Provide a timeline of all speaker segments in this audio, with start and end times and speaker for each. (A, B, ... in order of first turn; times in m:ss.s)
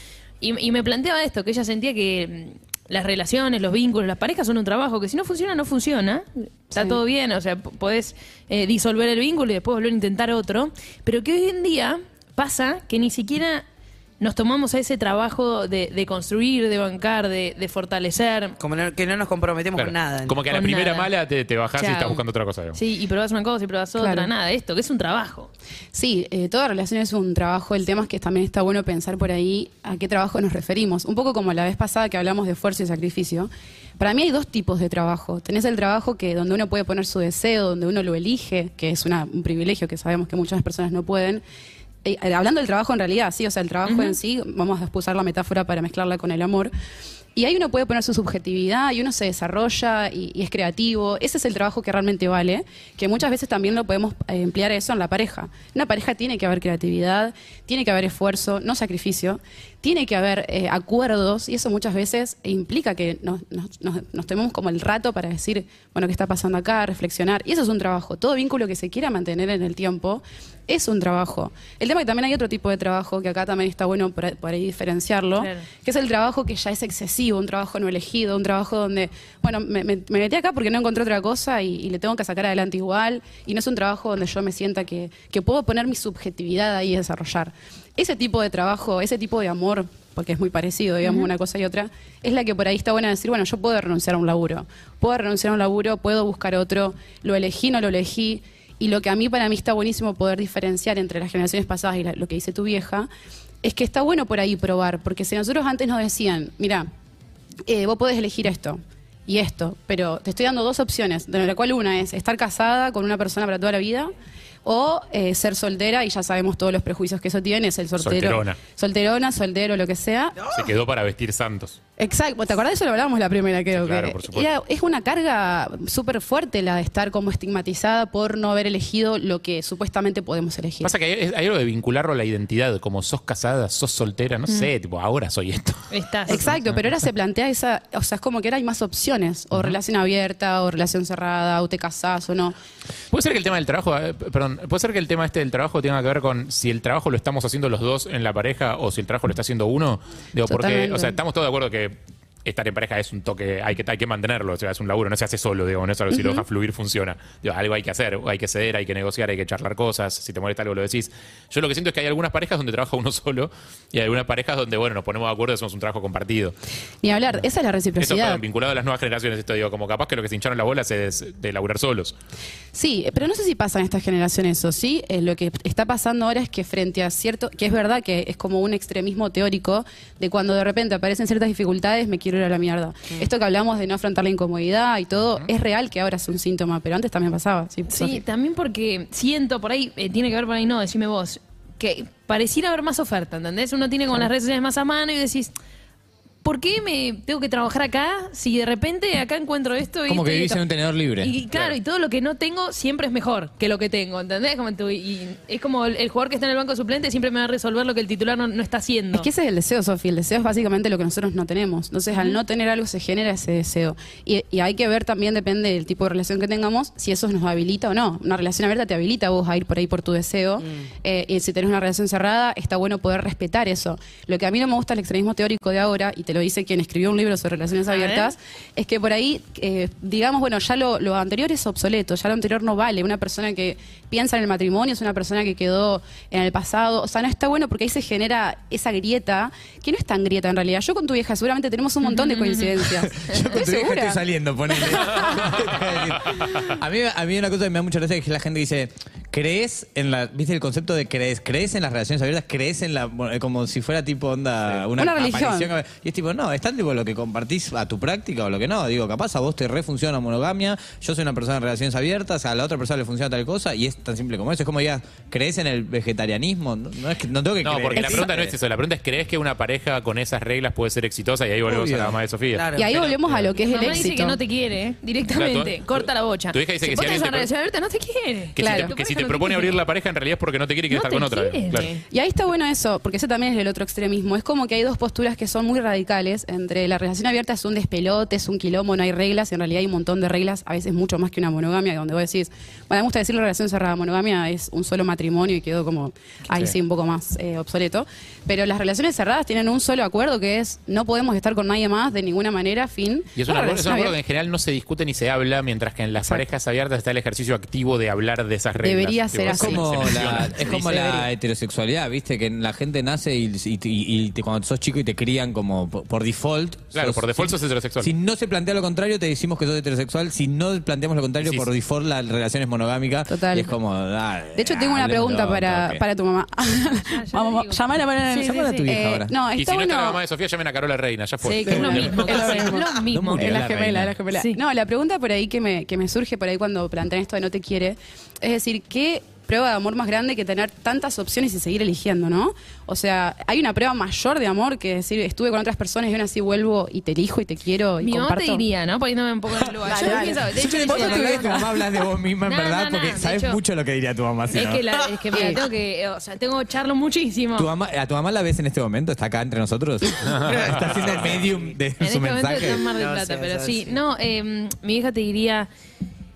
0:00.4-0:13.6 A
0:06.8-0:07.0 B
0:14.2-0:18.6 A
0:18.6-0:20.4 C
0:19.8-0:22.8 D
0:20.5-0:21.1 A
0:21.8-0:22.2 A
0:22.7-0:25.5 A
0:24.0-0:24.3 B
0:25.9-0:41.4 B
0:42.0-0:46.7 B
0:43.9-0:44.2 A
0:47.4-1:43.1 B
1:15.4-1:15.7 A
1:31.0-1:31.3 A
1:43.6-1:46.9 B
1:47.7-1:54.1 B
1:54.6-2:00.4 B
1:58.0-1:58.6 D
2:00.4-2:00.8 C
2:00.5-2:01.8 D
2:02.0-2:10.9 B
2:03.7-2:04.5 D
2:10.8-2:15.9 D
2:15.9-2:16.6 A
2:16.3-2:22.6 B
2:16.4-2:16.8 D
2:19.5-2:19.8 D
2:23.1-2:46.6 D
2:30.5-2:31.2 B
2:36.1-2:36.4 B
2:47.0-2:48.4 B
2:48.0-2:52.1 D
2:52.7-3:08.2 B
3:07.9-3:15.5 A
3:16.4-3:20.6 A
3:20.1-3:21.3 E
3:21.2-3:29.3 A
3:29.1-4:04.2 B
3:32.1-3:32.4 A
3:47.9-3:48.3 A
4:02.0-4:02.8 A
4:02.9-4:28.6 E
4:04.7-4:05.8 B
4:06.2-4:06.6 D
4:15.0-4:15.7 B
4:27.6-4:33.5 D
4:31.7-4:32.2 E
4:32.5-4:33.0 C
4:32.8-4:34.4 B
4:33.6-4:39.8 A
4:35.3-4:37.5 D
4:38.6-4:41.9 D
4:38.6-4:38.9 B
4:40.9-4:42.0 A
4:42.1-5:04.2 B
5:03.4-5:10.6 D
5:08.8-5:11.3 B
5:09.5-5:26.0 E
5:16.9-5:18.1 D
5:21.4-5:21.7 D
5:23.3-5:23.7 B
5:24.6-5:30.2 B
5:27.0-5:28.9 A
5:28.3-5:29.4 E
5:29.6-5:32.7 D
5:31.4-5:33.6 A
5:31.6-5:48.6 B
5:31.8-5:32.2 E
5:33.1-5:34.2 E
5:34.3-5:34.6 A
5:48.0-5:51.7 A
5:49.8-5:51.8 B
5:49.9-5:54.8 E
5:52.4-5:53.6 A
5:54.5-5:57.7 A
5:55.3-5:55.6 B
5:57.6-6:02.8 E
6:00.3-6:01.2 D
6:00.3-6:01.7 C
6:02.0-6:05.7 A
6:02.8-6:04.0 C